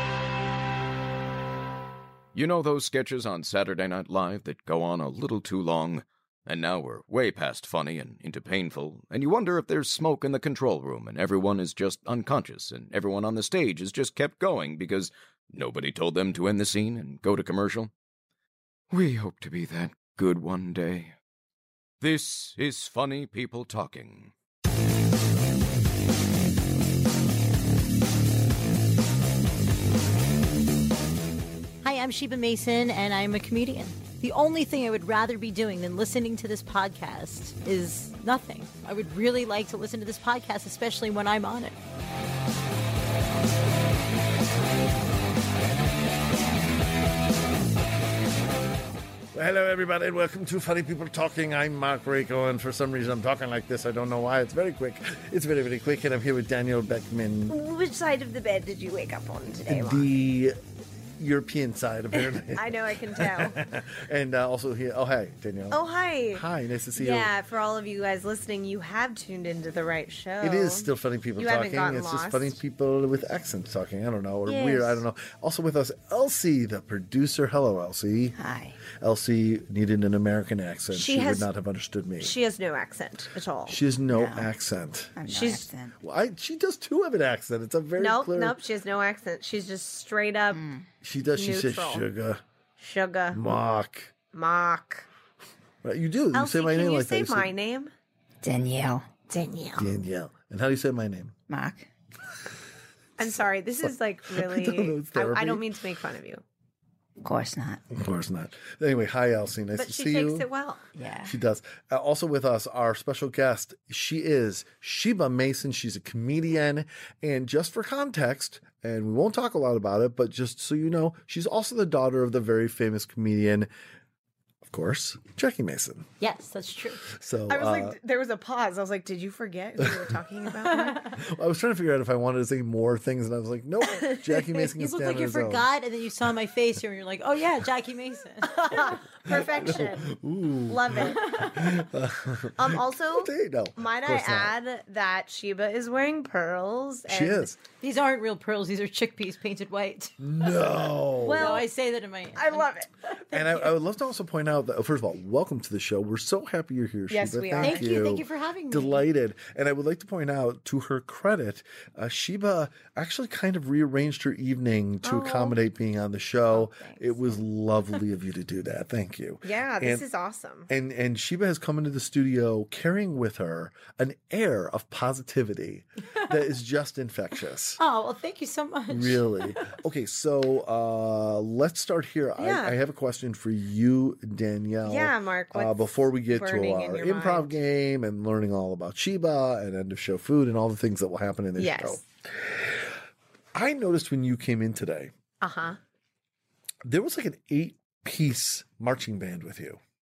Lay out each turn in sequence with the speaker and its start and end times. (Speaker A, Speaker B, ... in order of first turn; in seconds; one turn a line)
Speaker A: 2.3-17.9
Speaker A: 18.9-21.1
Speaker A: 22.0-24.3
Speaker B: 31.8-41.8
Speaker C: 49.3-57.6
Speaker D: 57.5-60.1
Speaker C: 59.7-60.6
Speaker C: 61.2-65.8
Speaker D: 62.1-63.6
Speaker D: 65.7-66.5
Speaker C: 66.3-67.3
Speaker D: 67.0-72.6
Speaker C: 70.4-78.4
Speaker D: 74.5-75.1
Speaker E: 78.4-78.8
Speaker C: 78.9-82.3
Speaker D: 80.9-81.5
Speaker D: 82.2-83.8
Speaker C: 83.7-85.4
Speaker E: 84.1-84.5
Speaker E: 85.2-86.0
Speaker D: 85.3-85.6
Speaker C: 86.0-88.6
Speaker D: 88.0-90.7
Speaker E: 90.5-90.9
Speaker C: 91.0-92.4
Speaker D: 91.4-92.0
Speaker D: 92.8-93.4
Speaker C: 93.3-94.1
Speaker D: 94.3-95.1
Speaker C: 95.8-97.5
Speaker D: 96.3-97.9
Speaker E: 98.4-99.1
Speaker D: 99.3-99.9
Speaker C: 99.8-101.3
Speaker E: 101.5-101.9
Speaker D: 103.2-106.4
Speaker C: 103.8-106.0
Speaker E: 107.2-107.8
Speaker C: 107.9-110.5
Speaker D: 109.8-110.8
Speaker E: 111.0-111.4
Speaker C: 111.2-123.7
Speaker C: 124.6-126.1
Speaker B: 126.2-127.0
Speaker C: 127.1-128.0
Speaker D: 127.5-131.0
Speaker C: 129.8-130.1
Speaker B: 130.7-131.2
Speaker C: 131.2-135.7
Speaker D: 133.8-134.7
Speaker B: 134.8-139.0
Speaker D: 138.6-140.1
Speaker C: 139.3-144.5
Speaker D: 140.7-141.4
Speaker B: 141.2-141.6
Speaker D: 142.6-147.5
Speaker C: 147.1-147.6
Speaker B: 147.8-150.2
Speaker C: 150.2-151.6
Speaker D: 151.2-151.7
Speaker B: 151.4-153.2
Speaker D: 152.3-152.9
Speaker C: 153.3-170.1
Speaker D: 157.1-157.9
Speaker B: 157.6-159.0
Speaker D: 165.0-165.6
Speaker D: 166.5-167.3
Speaker D: 169.4-170.7
Speaker C: 170.7-177.8
Speaker B: 177.8-179.8
Speaker C: 178.9-192.9
Speaker D: 182.4-182.8
Speaker D: 184.8-187.5
Speaker D: 191.6-192.0
Speaker C: 193.5-195.1
Speaker D: 195.4-195.8
Speaker C: 196.8-199.8